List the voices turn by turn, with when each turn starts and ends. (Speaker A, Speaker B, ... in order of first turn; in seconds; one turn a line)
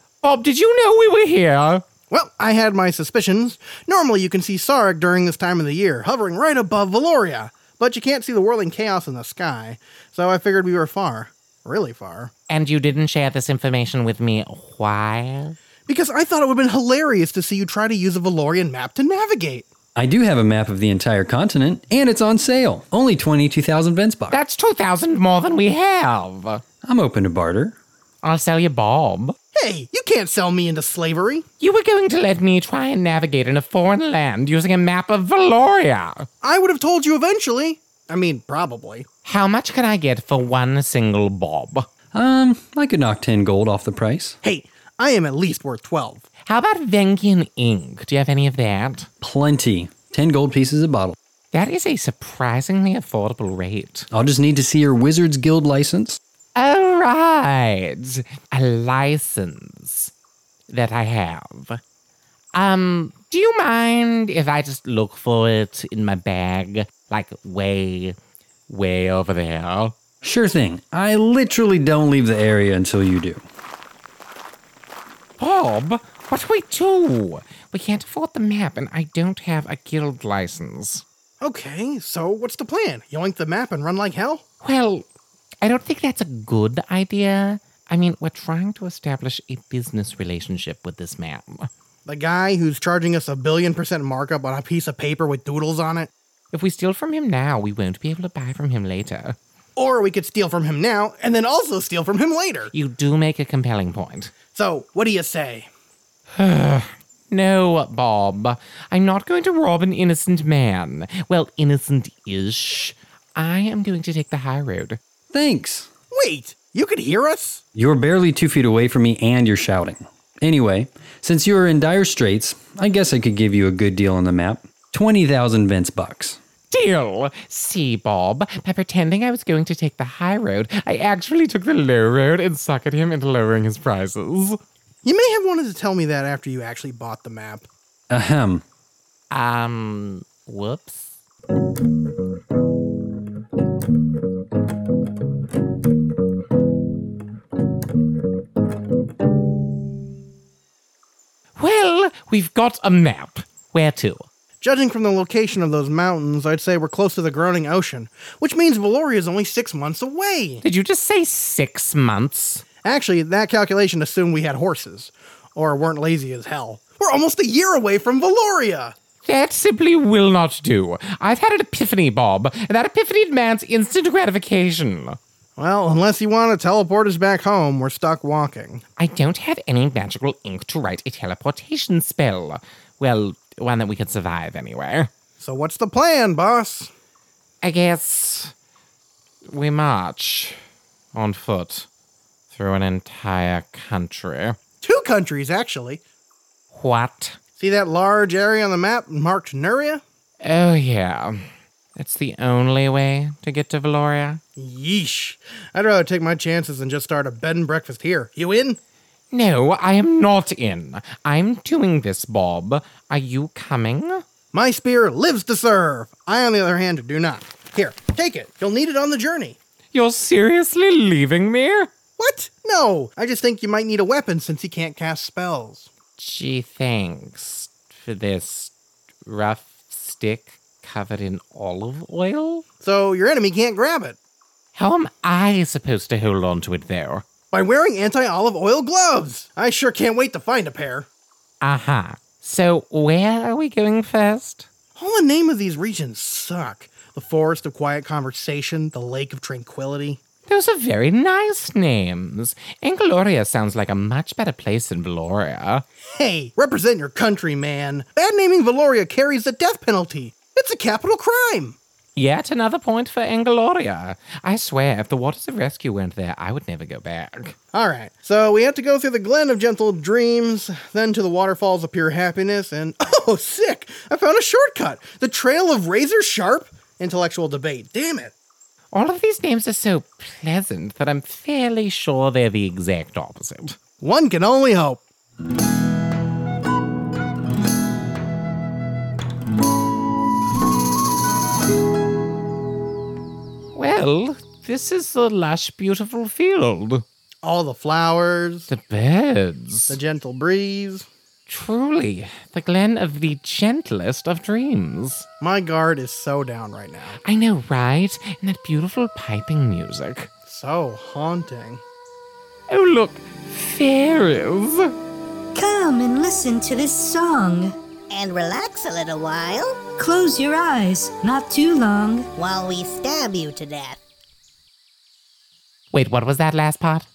Speaker A: 0.2-1.8
Speaker B: 2.1-12.3
Speaker A: 12.5-15.6
Speaker B: 15.9-19.7
Speaker C: 19.9-24.4
Speaker A: 24.3-26.6
Speaker C: 26.8-27.8
Speaker A: 28.2-29.4
Speaker B: 29.6-31.4
Speaker A: 31.6-36.3
Speaker B: 36.4-39.1
Speaker A: 39.2-41.9
Speaker C: 42.1-44.4
Speaker B: 44.4-46.2
Speaker A: 46.5-49.1
Speaker C: 49.2-51.2
Speaker A: 51.5-54.1
Speaker C: 54.1-56.2
Speaker A: 56.6-60.1
Speaker A: 60.7-61.8
Speaker A: 62.5-68.2
Speaker A: 68.7-70.0
Speaker C: 70.2-73.4
Speaker A: 75.4-81.0
Speaker B: 81.4-84.4
Speaker A: 84.6-85.1
Speaker A: 85.6-91.7
Speaker B: 92.1-96.1
Speaker A: 96.5-99.4
Speaker B: 99.8-102.7
Speaker A: 102.7-104.3
Speaker B: 104.5-105.7
Speaker A: 106.4-115.0
Speaker C: 115.3-115.9
Speaker B: 116.1-117.6
Speaker C: 117.8-126.4
Speaker A: 126.7-134.6
Speaker B: 135.0-137.7
Speaker C: 138.1-138.6
Speaker A: 139.3-141.2
Speaker A: 151.6-154.3
Speaker B: 154.6-160.6
Speaker A: 160.6-162.7
Speaker B: 162.8-168.9
Speaker A: 169.2-175.2
Speaker B: 175.6-178.8
Speaker A: 179.0-185.1
Speaker B: 185.4-186.9
Speaker A: 187.6-188.5
Speaker A: 189.5-190.6
Speaker A: 191.1-191.9
Speaker A: 192.5-194.6
Speaker B: 194.8-196.0
Speaker A: 196.7-197.4
Speaker B: 197.6-200.0
Speaker A: 200.4-201.4
Speaker A: 202.0-204.4
Speaker B: 204.6-208.8
Speaker A: 209.3-214.2
Speaker B: 214.5-219.6
Speaker A: 219.9-221.9
Speaker B: 222.2-225.9
Speaker A: 226.2-228.7
Speaker A: 229.2-232.7
Speaker B: 232.8-234.2
Speaker A: 234.8-237.2
Speaker B: 237.5-241.1
Speaker A: 241.6-244.7
Speaker B: 245.0-250.2
Speaker A: 250.5-255.8
Speaker B: 256.1-261.8
Speaker A: 262.2-267.6
Speaker B: 267.7-278.3
Speaker A: 278.9-283.8
Speaker B: 284.0-285.0
Speaker A: 293.8-297.0
Speaker B: 297.4-298.7
Speaker A: 298.7-300.0
Speaker B: 299.9-301.1
Speaker A: 301.5-305.3
Speaker B: 305.4-307.2
Speaker A: 307.2-310.3
Speaker B: 310.5-311.8
Speaker A: 312.7-314.9
Speaker D: 315.5-317.8
Speaker E: 318.1-319.8
Speaker D: 320.0-322.3
Speaker E: 322.4-324.0
Speaker A: 325.9-327.1